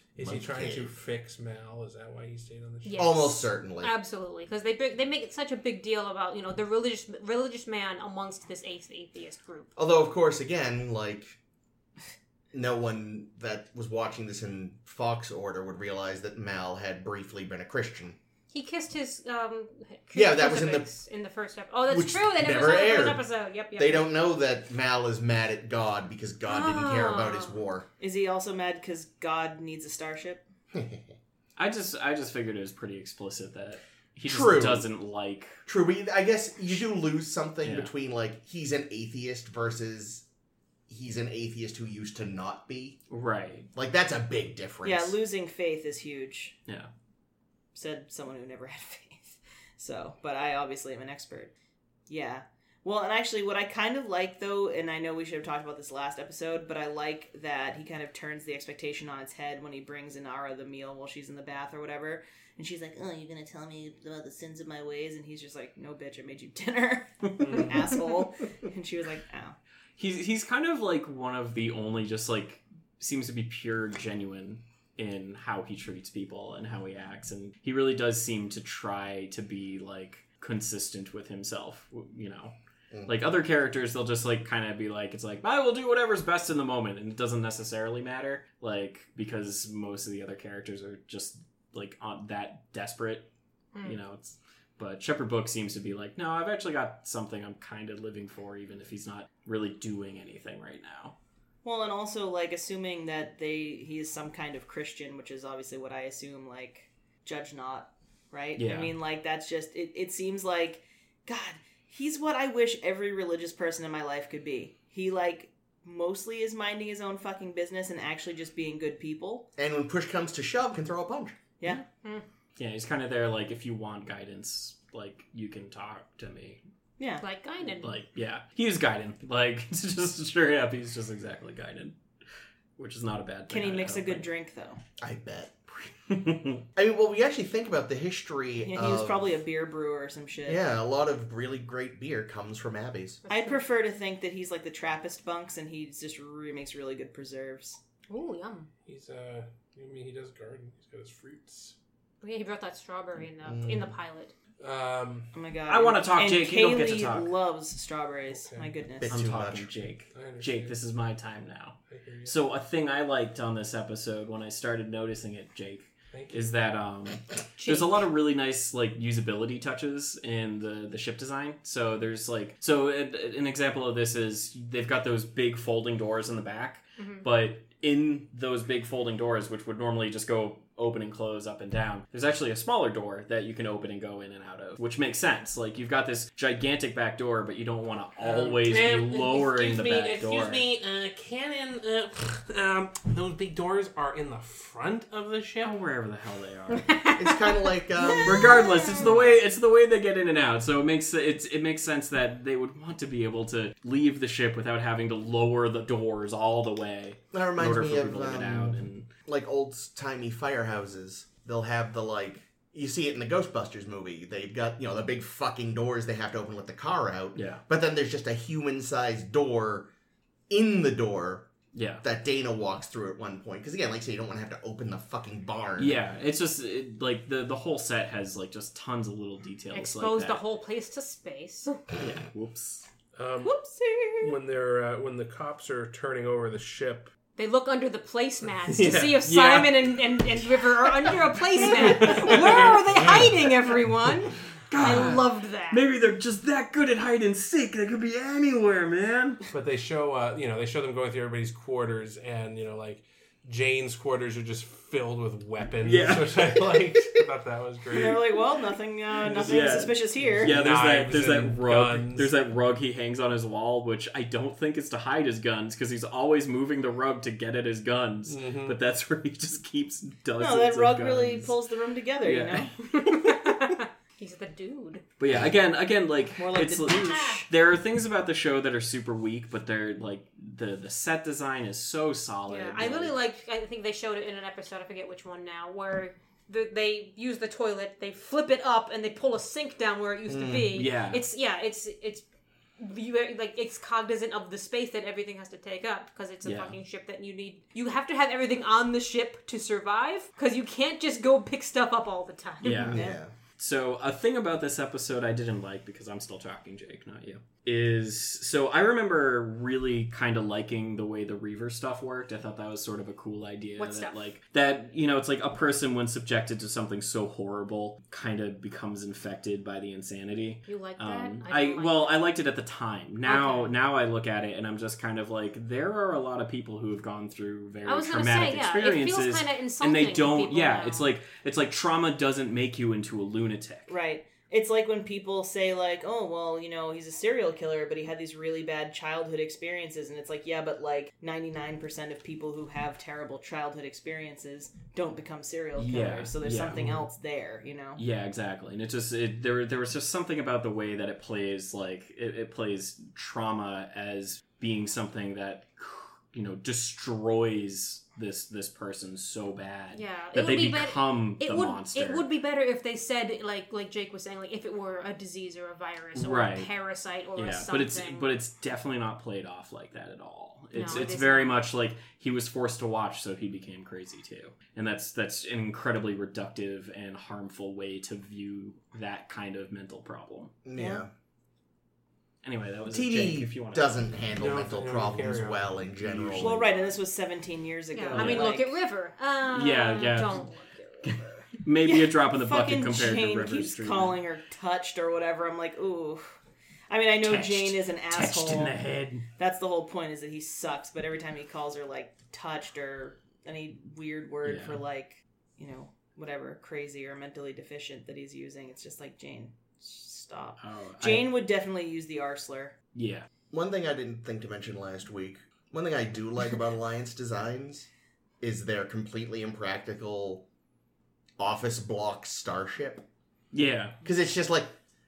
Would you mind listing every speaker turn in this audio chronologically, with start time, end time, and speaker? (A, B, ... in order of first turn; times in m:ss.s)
0:00.2-0:03.2 A
0:00.2-0:00.9 B
0:02.8-0:09.7 C
0:03.0-0:03.9 B
0:09.8-0:11.4 B
0:12.5-0:18.2 B
0:18.5-0:24.1 C
0:20.1-0:20.9 B
0:21.9-0:27.9 B
0:26.5-0:27.6 C
0:28.0-0:30.4 D
0:30.7-0:31.2 B
0:31.6-0:35.6 E
0:34.2-0:34.9 B
0:35.7-0:40.2 B
0:37.6-0:37.9 E
0:40.9-0:43.0 B
0:43.1-0:43.7 E
0:43.7-0:45.2 B
0:44.8-0:46.6 D
0:47.7-0:51.5 D
0:52.1-1:09.6 D
1:07.4-1:07.8 A
1:10.0-1:22.6 E
1:23.1-1:33.3 E
1:33.8-1:41.2 E
1:41.6-1:59.5 D
1:48.6-1:49.0 E
1:59.6-2:01.4 B
2:02.6-2:06.6 E
2:07.0-2:07.2 D
2:07.2-2:08.0 C
2:07.8-2:12.0 E
2:12.8-2:14.3 E
2:13.5-2:14.8 D
2:15.0-2:15.9 B
2:16.1-2:16.6 E
2:16.8-2:19.3 B
2:18.6-2:20.6 D
2:20.4-2:23.2 B
2:23.2-2:23.6 C
2:23.3-2:27.8 D
2:28.1-2:28.7 C
2:28.9-2:31.8 A
2:32.2-2:34.3 C
2:33.4-2:33.9 B
2:34.6-2:35.3 A
2:35.3-2:39.2 D
2:35.7-2:37.3 E
2:38.3-2:38.7 A
2:39.0-2:39.7 B
2:39.1-3:10.7 E
2:40.1-2:40.8 A
2:41.9-2:42.4 A
2:46.1-2:46.5 A
2:47.6-2:48.1 C
2:57.0-2:57.3 C
3:08.2-3:15.8 A
3:15.6-3:16.9 E
3:16.7-3:19.3 C
3:17.2-3:18.7 B
3:18.2-3:29.1 E
3:27.3-3:39.9 B
3:37.4-3:37.6 E
3:40.5-3:41.5 B
3:41.7-3:42.0 E
3:42.0-3:46.0 B
3:45.8-3:50.4 E
3:49.7-3:51.8 C
3:52.0-3:52.9 E
3:53.2-3:53.6 A
3:53.4-3:54.3 C
3:54.2-3:57.1 A
3:57.4-4:05.8 C
3:58.6-3:59.3 A
3:59.3-3:59.8 E
4:01.7-4:03.5 A
4:02.0-4:03.3 E
4:04.7-4:09.5 E
4:09.5-4:18.2 A
4:15.8-4:17.0 E
4:17.9-4:20.6 D
4:19.2-4:22.4 A
4:19.2-4:31.6 E
4:28.3-4:28.8 A
4:30.4-4:32.7 D
4:32.2-4:33.5 E
4:32.9-4:35.0 C
4:35.2-4:43.1 E
4:36.4-4:37.5 D
4:36.9-4:37.4 C
4:42.5-4:52.2 C
4:50.3-4:50.7 B
4:50.7-4:51.2 E
4:52.8-5:02.9 C
4:56.4-4:56.8 E
5:02.6-5:03.1 E
5:02.8-5:03.3 B
5:02.8-5:03.2 D
5:03.6-5:33.9 E
5:13.8-5:14.2 C
5:20.7-5:22.2 C
5:23.2-5:23.7 C
5:27.8-5:31.1 C
5:33.9-5:48.0 D
5:45.8-5:47.1 E
5:48.0-6:02.3 E
5:59.9-6:08.3 C
6:06.2-6:06.7 E
6:07.4-6:20.5 E
6:10.7-6:11.6 C
6:20.6-6:21.1 B
6:20.8-6:21.0 D
6:22.4-6:24.0 E
6:22.9-6:26.6 B
6:24.4-6:26.0 A
6:26.2-6:26.9 E
6:26.3-6:28.7 D
6:27.9-6:31.2 C
6:28.1-6:28.6 E
6:29.5-6:30.5 E
6:31.0-6:34.2 E
6:31.8-6:36.4 D
6:36.9-6:38.8 D
6:37.2-6:39.3 E
6:39.4-6:52.8 D
6:44.4-6:44.8 E
6:50.6-6:51.3 E
6:53.0-6:53.3 E
6:53.5-6:57.9 B
6:58.4-7:00.4 B
7:01.4-7:03.0 B
7:03.5-7:04.0 E
7:04.0-7:04.7 B